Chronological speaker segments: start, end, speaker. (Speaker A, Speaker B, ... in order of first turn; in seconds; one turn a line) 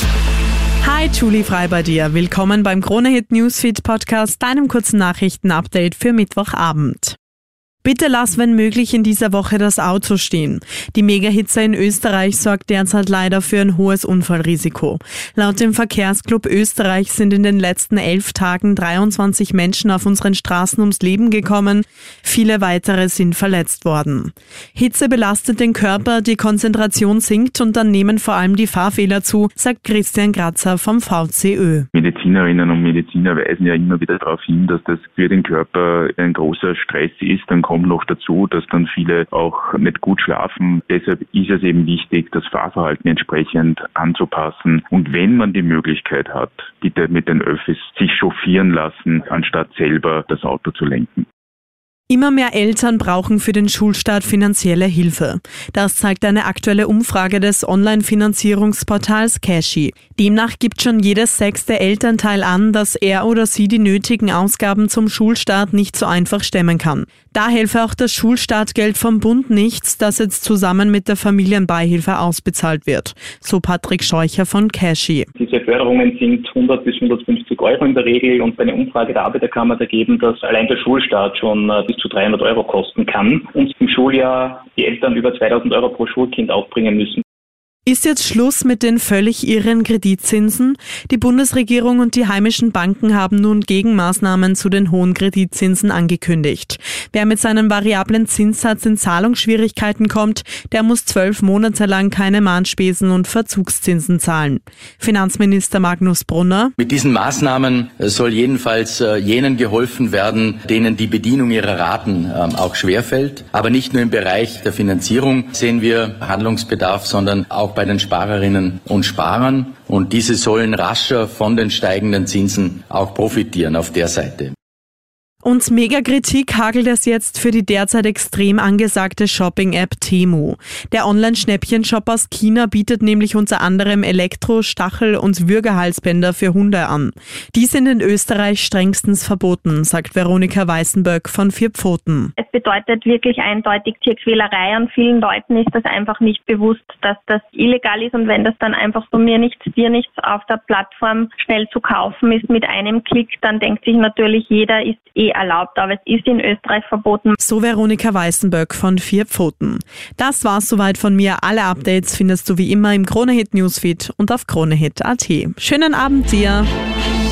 Speaker A: 0.8-7.2
Speaker A: 7.8-31.9
Speaker B: 31.9-51.2
Speaker A: 52.1-75.3
Speaker C: 75.4-87.2
Speaker A: 87.9-106.7
Speaker D: 106.8-124.5
Speaker A: 125.4-142.3
Speaker E: 142.4-157.3
Speaker A: 157.4-166.7